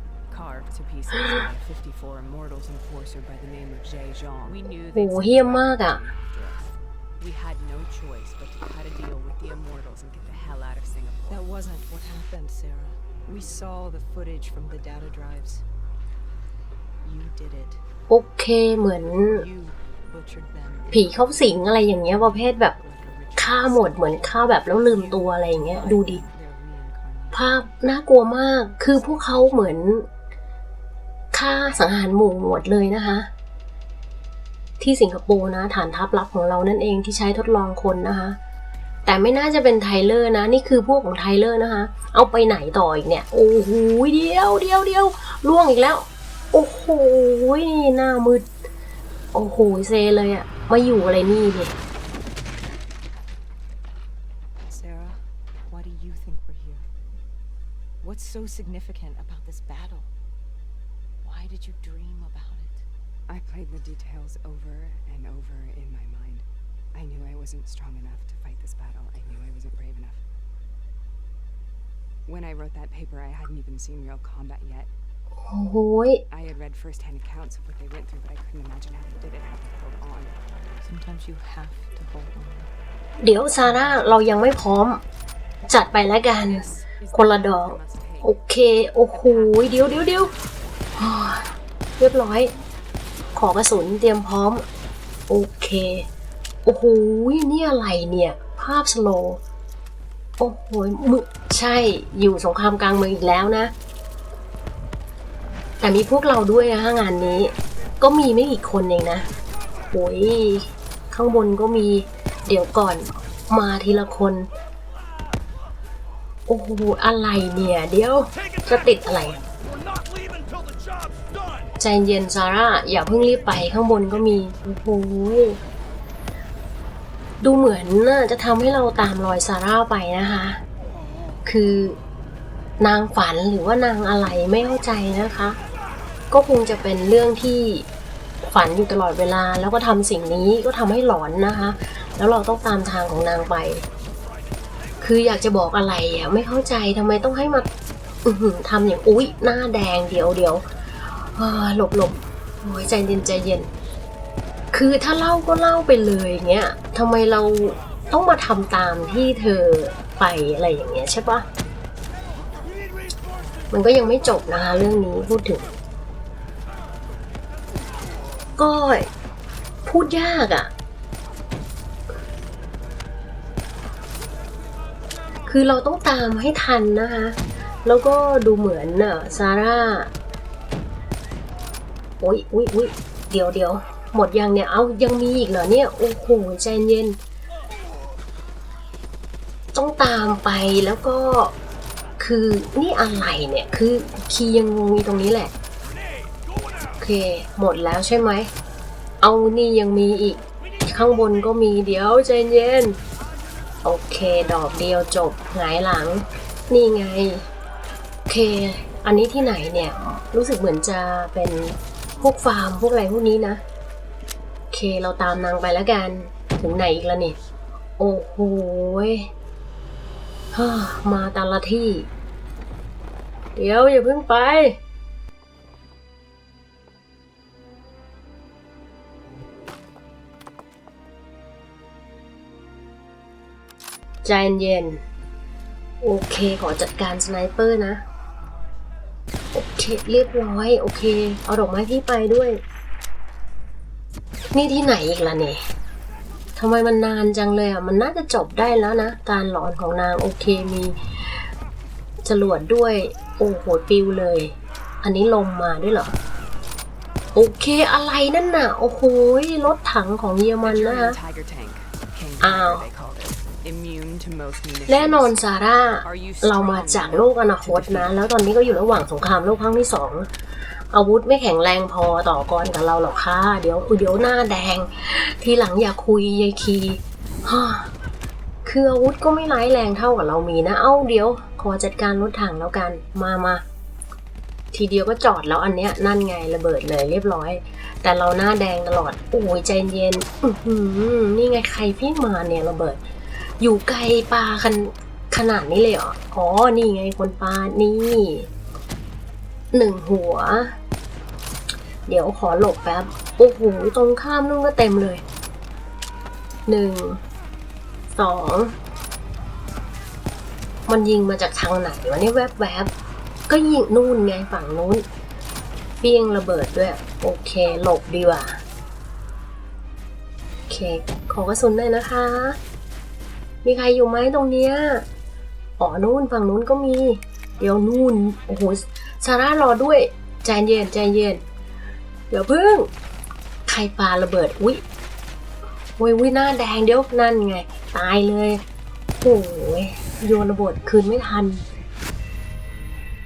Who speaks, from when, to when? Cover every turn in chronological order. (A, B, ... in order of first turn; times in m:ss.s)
0:00.3-0:11.4 A
0:04.9-0:06.0 B
0:11.2-0:15.6 C
0:17.0-0:17.8 C
0:18.1-0:19.4 B
0:19.1-0:27.5 C
0:20.9-0:22.7 B
0:23.4-0:26.2 B
0:27.3-0:30.1 B
0:28.9-0:29.6 C
0:31.3-0:33.3 B
0:34.8-0:38.4 B
0:39.0-0:48.5 B
0:49.3-0:51.7 B
0:54.7-0:56.9 C
0:58.0-1:00.1 C
1:01.2-1:02.8 C
1:03.3-1:10.2 A
1:12.2-1:14.9 A
1:15.4-1:16.2 B
1:16.3-1:20.4 A
1:20.8-1:22.7 C
1:23.2-1:25.0 B
1:23.6-1:24.0 C
1:25.7-1:30.3 B
1:26.3-1:28.4 A
1:29.1-1:30.5 A
1:31.0-1:32.5 B
1:33.3-1:34.6 B
1:35.3-1:36.0 B
1:36.6-1:39.4 B
1:40.4-1:43.7 B
1:45.8-1:49.3 B
1:49.9-1:54.5 B
1:56.5-1:59.4 B
2:01.8-2:05.6 B
2:07.4-2:10.6 B
2:11.4-2:12.0 B
2:12.8-2:15.6 B
2:16.3-2:17.9 B
2:18.4-2:23.8 B
2:25.0-2:27.7 B
2:28.2-2:30.6 B
2:31.3-2:33.7 B
2:34.7-2:41.4 B
2:43.7-2:45.7 B
2:48.6-2:49.1 B
2:49.8-2:50.7 B
2:55.5-3:00.1 B
3:02.2-3:07.2 B
3:09.7-3:11.5 B
3:12.2-3:15.5 B
3:17.0-3:18.5 B
3:19.2-3:23.0 B
3:23.8-3:27.5 B
3:28.3-3:33.6 B
3:34.7-3:37.4 B
3:38.0-3:39.3 B
3:40.5-3:42.1 B
3:43.6-3:44.8 B
3:54.2-3:55.0 B
3:56.0-3:58.0 B
3:59.5-4:02.6 B
4:04.5-4:05.6 B
4:06.6-4:11.0 B
4:12.2-4:16.1 B
4:17.3-4:21.2 B
4:20.6-4:25.4 A
4:22.4-4:22.9 B
4:24.9-4:30.3 B
4:26.0-4:28.2 A
4:30.9-4:37.9 B
4:38.6-4:43.6 B
4:44.7-4:53.0 B
4:53.6-4:58.5 B
4:59.7-5:00.7 B
5:02.1-5:05.2 B
5:06.7-5:07.2 B
5:08.1-5:08.8 B
5:10.9-5:12.9 B
5:13.5-5:15.0 B
5:16.0-5:18.6 B
5:20.7-5:22.6 B
5:23.6-5:25.0 B
5:25.8-5:31.4 B
5:32.3-5:32.9 B
5:33.7-5:34.8 B
5:36.0-5:38.6 B
5:39.1-5:41.6 B